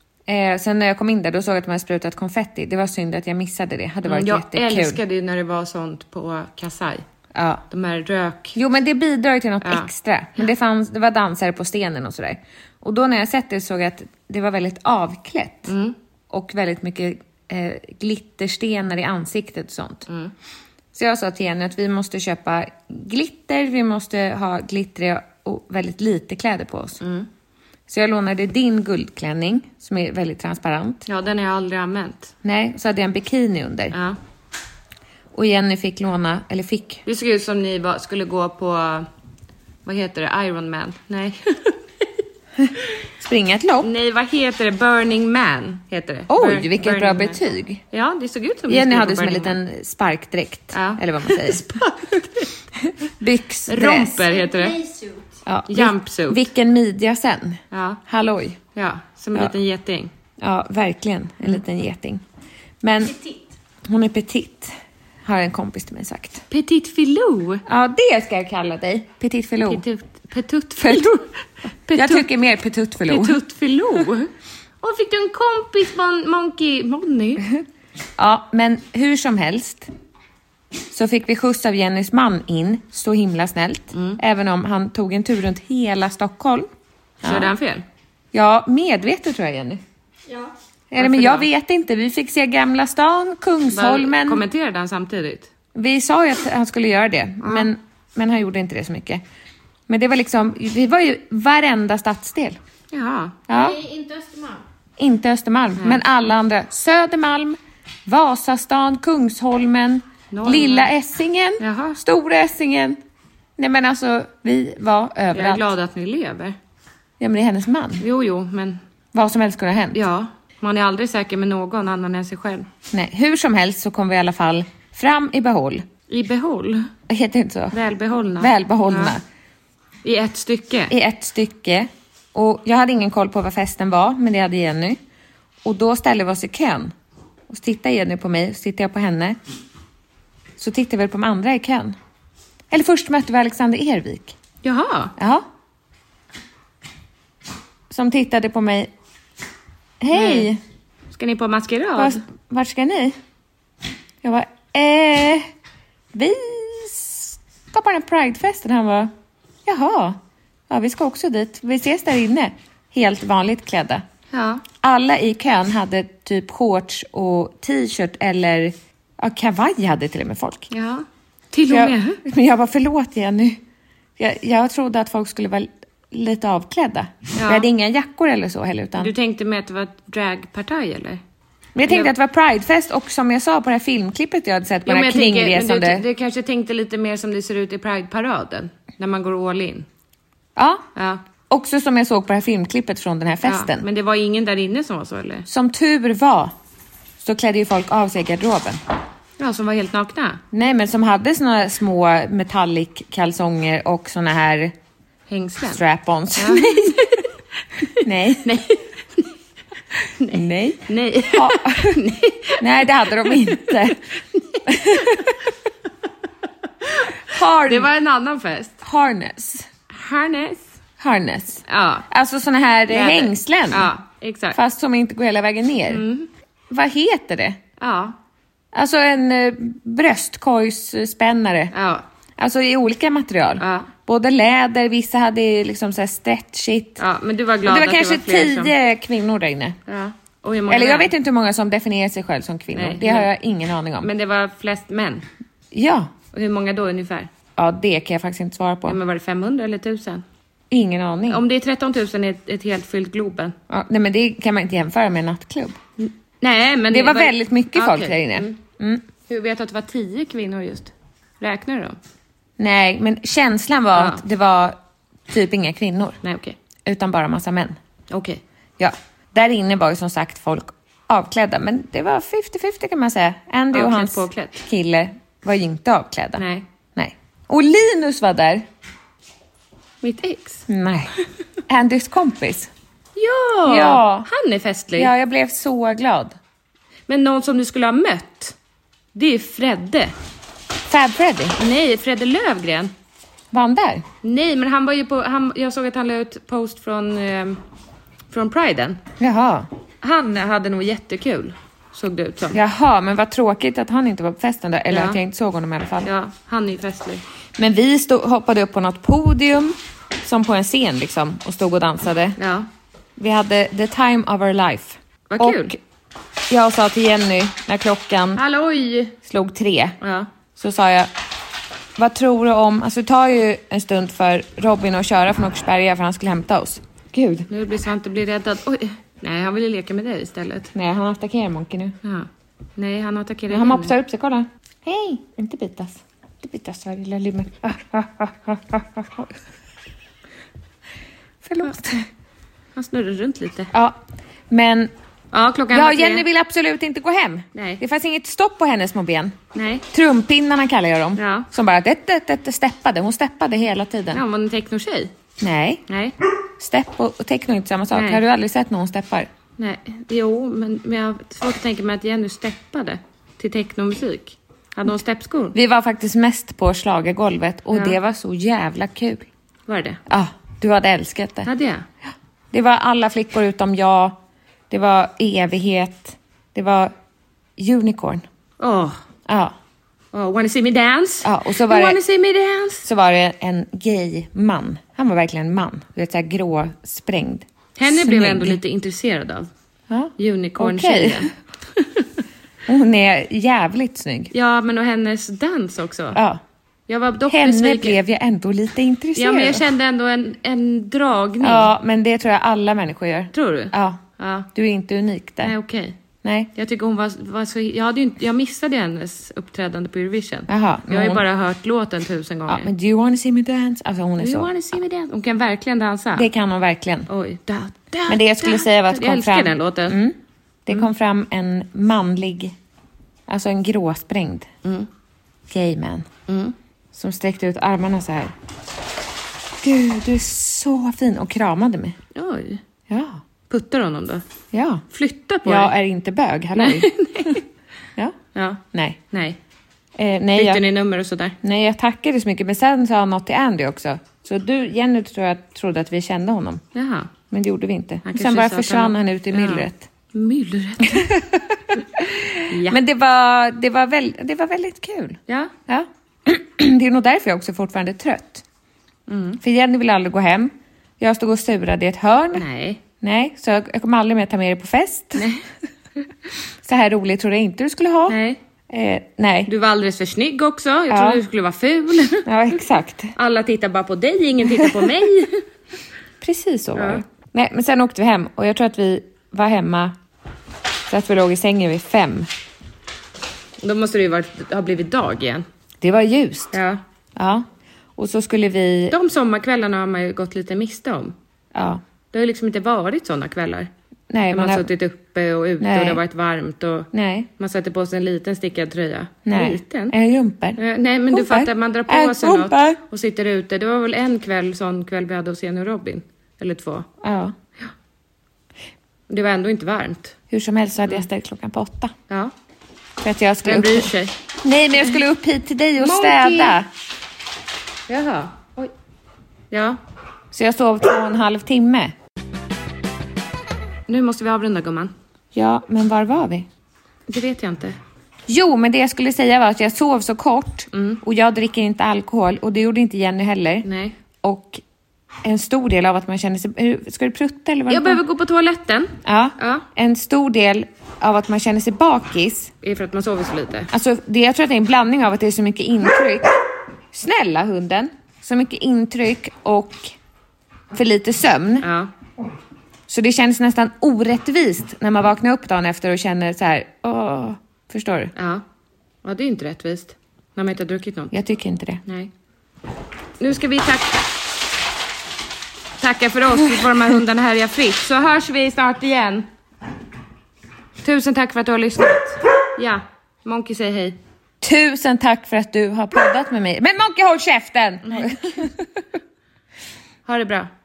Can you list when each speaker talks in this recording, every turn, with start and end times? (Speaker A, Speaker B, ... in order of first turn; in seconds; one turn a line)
Speaker A: 0.2-5.0
Speaker B: 4.0-7.0
Speaker A: 7.3-7.6
Speaker B: 7.7-8.6
Speaker A: 8.5-15.7
Speaker B: 9.6-9.9
Speaker B: 15.7-15.9
Speaker A: 16.3-20.1
Speaker B: 20.1-20.3
Speaker A: 20.9-27.0
Speaker B: 27.0-27.3
Speaker A: 27.9-31.0
Speaker B: 31.1-32.3
Speaker A: 32.4-34.0
Speaker B: 33.9-34.2
Speaker A: 35.3-37.0
Speaker B: 37.0-39.1
Speaker B: 39.8-41.8
Speaker A: 43.2-43.9
Speaker B: 43.8-47.4
Speaker A: 46.3-47.8
Speaker B: 47.9-49.6
Speaker A: 48.7-51.8
Speaker B: 50.7-52.5
Speaker A: 52.8-54.2
Speaker B: 53.7-54.8
Speaker C: 54.1-55.4
Speaker A: 55.5-58.6
Speaker B: 55.7-56.5
Speaker B: 57.7-58.0
Speaker B: 58.7-60.1
Speaker A: 60.4-62.2
Speaker A: 62.8-63.2
Speaker A: 63.9-66.4
Speaker B: 66.5-67.6
Speaker A: 67.7-69.8
Speaker B: 69.6-71.2
Speaker A: 70.8-71.2
Speaker B: 71.8-72.3
Speaker A: 71.9-73.4
Speaker B: 73.0-74.3
Speaker B: 74.8-77.5
Speaker A: 78.2-79.9
Speaker A: 80.9-86.7
Speaker B: 83.9-84.2
Speaker A: 87.2-87.5
Speaker B: 87.2-87.8
Speaker A: 88.3-89.8
Speaker A: 90.9-94.4
Speaker B: 91.0-91.5
Speaker B: 93.7-95.5
Speaker A: 95.7-99.2
Speaker B: 97.4-97.7
Speaker A: 99.9-102.6
Speaker B: 102.9-103.4
Speaker A: 103.5-103.8
Speaker C: 103.5-104.6
Speaker A: 105.0-113.0
Speaker B: 110.3-110.9
Speaker B: 111.6-112.0
Speaker A: 113.6-115.7
Speaker B: 115.3-116.5
Speaker A: 117.2-118.0
Speaker B: 118.0-118.8
Speaker A: 119.1-120.0
Speaker B: 119.9-122.7
Speaker A: 122.9-125.8
Speaker B: 126.1-126.9
Speaker A: 127.1-127.8
Speaker B: 127.7-129.1
Speaker A: 128.4-129.2
Speaker B: 130.0-130.9
Speaker A: 130.9-135.0
Speaker A: 135.6-136.9
Speaker A: 137.5-139.4
Speaker A: 140.6-141.9
Speaker A: 142.7-144.3
Speaker B: 144.6-145.1
Speaker A: 145.2-145.4
Speaker A: 147.9-148.9
Speaker A: 150.0-150.6
Speaker B: 150.1-150.5
Speaker B: 151.1-152.2
Speaker A: 151.9-153.2
Speaker A: 154.2-155.5
Speaker A: 156.1-159.1
Speaker A: 159.6-164.0
Speaker B: 164.3-164.6
Speaker A: 164.8-170.7
Speaker B: 170.7-172.2
Speaker A: 171.7-173.6
Speaker A: 174.2-179.1
Speaker B: 177.3-177.7
Speaker B: 179.0-181.2
Speaker A: 181.7-186.0
Speaker B: 181.8-182.1
Speaker B: 184.8-189.8
Speaker A: 190.6-190.8
Speaker B: 190.9-191.2
Speaker A: 191.5-193.8
Speaker B: 193.4-195.4
Speaker A: 195.5-196.5
Speaker A: 197.2-198.8
Speaker B: 199.4-200.4
Speaker A: 200.5-204.7
Speaker B: 205.3-205.8
Speaker A: 205.7-207.0
Speaker B: 206.3-207.3
Speaker B: 207.8-209.3
Speaker A: 208.0-208.6
Speaker B: 210.2-214.7
Speaker A: 210.3-212.0
Speaker A: 212.6-214.0
Speaker A: 214.7-215.5
Speaker B: 216.8-218.8
Speaker A: 217.2-217.9
Speaker A: 218.8-219.7
Speaker B: 219.9-220.7
Speaker A: 221.0-223.9
Speaker B: 221.7-222.1
Speaker B: 222.9-224.6
Speaker A: 224.5-226.0
Speaker B: 225.9-226.3
Speaker A: 226.7-227.6
Speaker B: 227.8-228.1
Speaker A: 228.7-231.7
Speaker B: 231.7-232.0
Speaker A: 232.4-237.0
Speaker B: 233.6-233.9
Speaker B: 237.0-238.7
Speaker A: 237.6-239.8
Speaker B: 239.9-241.1
Speaker A: 240.7-244.1
Speaker B: 242.7-243.3
Speaker B: 244.0-245.2
Speaker A: 245.7-246.1
Speaker B: 246.3-247.3
Speaker A: 247.6-249.0
Speaker B: 248.8-250.2
Speaker A: 250.7-251.4
Speaker B: 251.3-253.5
Speaker A: 253.7-255.8
Speaker B: 256.0-258.6
Speaker A: 256.9-259.0
Speaker B: 259.3-262.0
Speaker A: 262.6-266.2
Speaker B: 263.9-264.2
Speaker B: 266.2-266.6
Speaker A: 266.9-267.8
Speaker B: 268.1-268.4
Speaker A: 268.8-278.6
Speaker B: 273.7-274.6
Speaker B: 276.4-276.6
Speaker B: 280.0-280.6
Speaker A: 280.7-281.1
Speaker A: 281.7-282.7
Speaker B: 283.1-285.1
Speaker A: 283.7-284.3
Speaker A: 284.9-286.4
Speaker B: 287.1-288.6
Speaker B: 289.1-290.1
Speaker A: 290.9-291.6
Speaker B: 291.6-292.9
Speaker A: 293.5-294.0
Speaker B: 294.2-297.6
Speaker B: 298.3-299.0
Speaker A: 299.2-299.7
Speaker B: 300.0-302.6
Speaker A: 302.5-306.1
Speaker B: 304.9-305.2
Speaker B: 306.0-307.2
Speaker A: 307.6-312.4
Speaker B: 312.4-312.7
Speaker A: 313.2-315.8
Speaker B: 315.3-315.8
Speaker A: 316.5-318.4
Speaker B: 318.3-319.1
Speaker A: 319.2-320.0
Speaker B: 320.0-320.3
Speaker A: 320.6-321.1
Speaker A: 321.9-327.5
Speaker B: 327.5-330.7
Speaker A: 330.7-332.0
Speaker B: 332.0-333.9
Speaker A: 333.5-339.3
Speaker A: 341.4-342.1
Speaker B: 342.7-343.7
Speaker A: 343.7-344.9
Speaker B: 345.3-346.2
Speaker A: 345.7-354.2
Speaker B: 347.5-347.8
Speaker B: 349.5-349.8
Speaker B: 351.2-351.5
Speaker B: 354.1-355.1
Speaker A: 355.4-355.8
Speaker B: 355.9-356.1
Speaker A: 356.6-359.3
Speaker B: 357.9-358.2
Speaker B: 359.6-365.6
Speaker A: 365.5-369.3
Speaker B: 367.7-368.0
Speaker B: 369.7-370.0
Speaker A: 370.1-371.5
Speaker B: 371.4-371.8
Speaker A: 372.5-374.2
Speaker A: 374.7-376.9
Speaker A: 377.6-378.2
Speaker B: 378.6-379.0
Speaker A: 379.2-379.6
Speaker B: 380.1-382.9
Speaker A: 381.2-382.0
Speaker A: 382.8-388.6
Speaker B: 387.8-389.5
Speaker A: 389.9-391.3
Speaker B: 390.2-392.0
Speaker A: 392.7-394.3
Speaker B: 394.3-396.2
Speaker A: 396.1-396.4
Speaker B: 396.9-398.0
Speaker A: 397.3-399.6
Speaker B: 399.1-401.7
Speaker A: 401.4-404.0
Speaker B: 403.3-404.5
Speaker A: 404.5-405.5
Speaker B: 405.4-405.9
Speaker A: 406.2-406.5
Speaker B: 406.5-412.7
Speaker A: 410.5-411.2
Speaker A: 412.5-414.5
Speaker B: 414.2-416.3
Speaker A: 416.1-417.1
Speaker B: 417.1-420.0
Speaker A: 418.1-422.5
Speaker A: 423.3-424.5
Speaker A: 425.5-426.1
Speaker B: 426.3-426.5
Speaker A: 426.9-428.3
Speaker A: 429.6-432.0
Speaker B: 432.1-432.6
Speaker A: 432.9-433.2
Speaker B: 433.5-434.2
Speaker A: 434.5-434.8
Speaker B: 434.9-435.7
Speaker A: 435.4-437.4
Speaker B: 436.6-437.4
Speaker B: 438.3-439.4
Speaker A: 438.7-439.0
Speaker A: 439.9-440.6
Speaker B: 440.3-441.4
Speaker A: 441.4-446.6
Speaker B: 446.7-447.1
Speaker A: 447.3-449.9
Speaker B: 448.0-451.1
Speaker A: 450.9-458.4
Speaker B: 452.5-452.8
Speaker B: 459.1-459.4
Speaker A: 459.4-462.5
Speaker B: 462.3-462.8
Speaker A: 463.0-465.3
Speaker B: 465.1-465.4
Speaker A: 466.6-468.2
Speaker B: 468.1-468.4
Speaker A: 468.7-469.5
Speaker B: 469.5-472.6
Speaker A: 470.9-471.2
Speaker A: 472.2-473.1
Speaker B: 473.1-475.4
Speaker A: 476.2-479.9
Speaker B: 476.7-477.0
Speaker A: 480.9-482.3
Speaker B: 483.6-485.4
Speaker A: 485.8-486.6
Speaker B: 486.5-486.8
Speaker A: 487.1-487.4
Speaker A: 488.0-488.9
Speaker B: 488.9-491.1
Speaker A: 491.5-491.8
Speaker B: 492.1-493.7
Speaker A: 494.1-494.7
Speaker B: 494.3-499.9
Speaker A: 495.6-496.0
Speaker A: 496.9-497.3
Speaker A: 499.2-502.8
Speaker B: 500.6-506.9
Speaker A: 507.0-507.3
Speaker B: 509.1-510.1
Speaker A: 510.3-511.9
Speaker A: 513.0-516.7
Speaker B: 513.4-514.1
Speaker B: 515.8-516.6
Speaker B: 517.9-518.7
Speaker B: 519.5-519.8
Speaker A: 520.3-521.9
Speaker B: 523.9-524.9
Speaker A: 525.3-526.5
Speaker B: 527.1-527.8
Speaker A: 528.3-533.7
Speaker B: 530.7-531.0
Speaker B: 533.6-533.9
Speaker A: 534.2-534.6
Speaker A: 535.2-538.0
Speaker B: 537.7-539.6
Speaker A: 539.0-542.5
Speaker B: 542.6-543.7
Speaker A: 543.7-546.4
Speaker A: 546.9-549.9
Speaker A: 550.7-551.7
Speaker B: 551.6-551.9
Speaker A: 552.9-558.1
Speaker B: 558.1-558.4
Speaker B: 559.0-561.1
Speaker A: 561.1-561.8
Speaker B: 561.9-562.1
Speaker B: 563.2-564.1
Speaker B: 565.8-569.2
Speaker B: 570.8-574.0
Speaker A: 574.4-578.7
Speaker B: 577.8-578.3
Speaker B: 580.0-580.5